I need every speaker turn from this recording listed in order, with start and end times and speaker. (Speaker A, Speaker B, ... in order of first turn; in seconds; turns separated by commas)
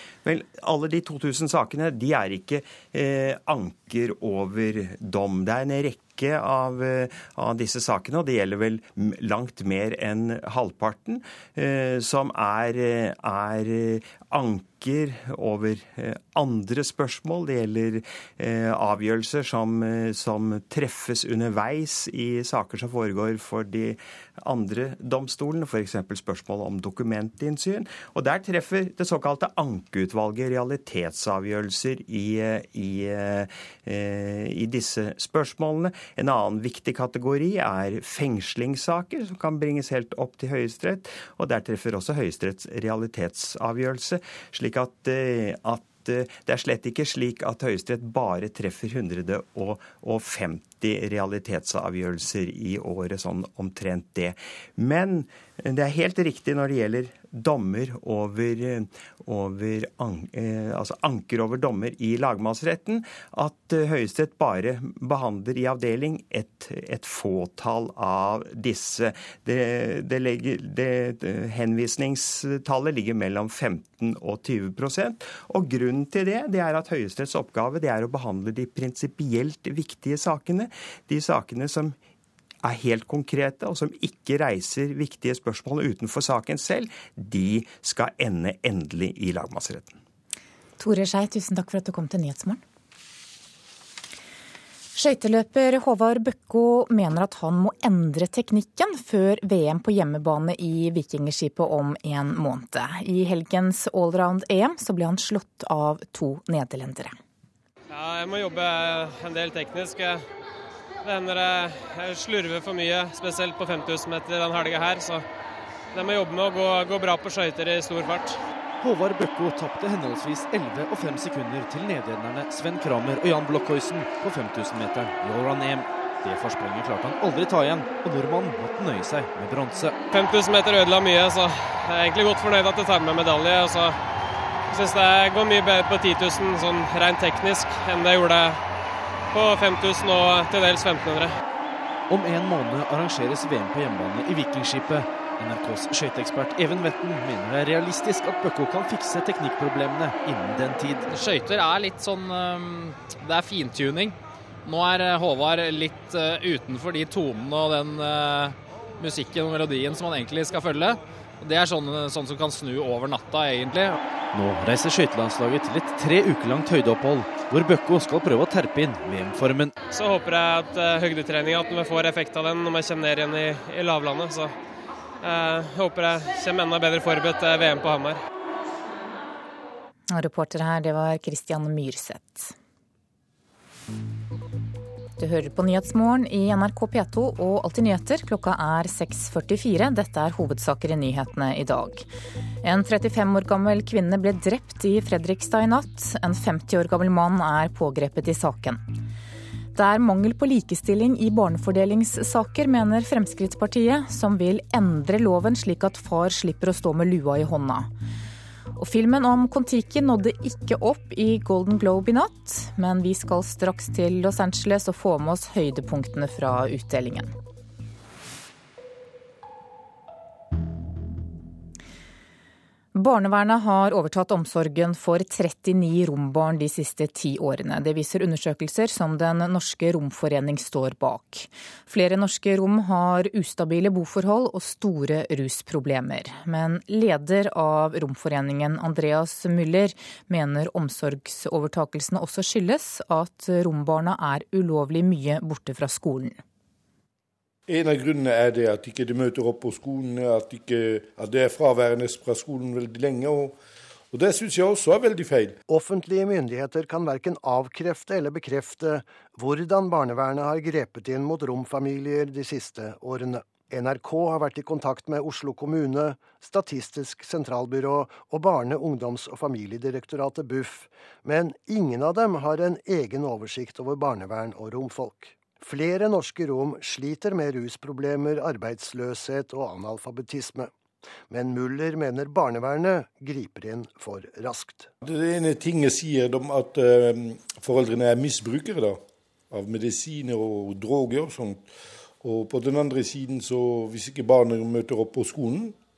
Speaker A: 0.2-82.0, Speaker A: 82.6-90.0, Speaker B: 90.8-92.6, Speaker B: 94.9-107.1, Speaker C: 107.9-110.2, Speaker C: 111.0-115.2, Speaker C: 115.9-118.4, Speaker D: 118.8-130.0, Speaker C: 130.1-134.0, Speaker C: 134.7-138.6, Speaker C: 139.3-141.3, Speaker D: 142.1-151.1, Speaker E: 151.1-163.9, Speaker D: 164.3-169.7, Speaker C: 169.9-174.5, Speaker C: 175.2-178.2, Speaker B: 180.1-182.5, Speaker B: 185.2-192.0, Speaker B: 192.6-198.8, Speaker B: 199.7-207.9, Speaker B: 208.8-217.3, Speaker B: 222.9-246.4, Speaker F: 247.7-253.6, Speaker F: 254.1-255.6, Speaker G: 255.7-280.7, Speaker G: 281.3-284.9, Speaker F: 285.0-289.0, Speaker F: 289.5-291.7, Speaker F: 292.2-295.8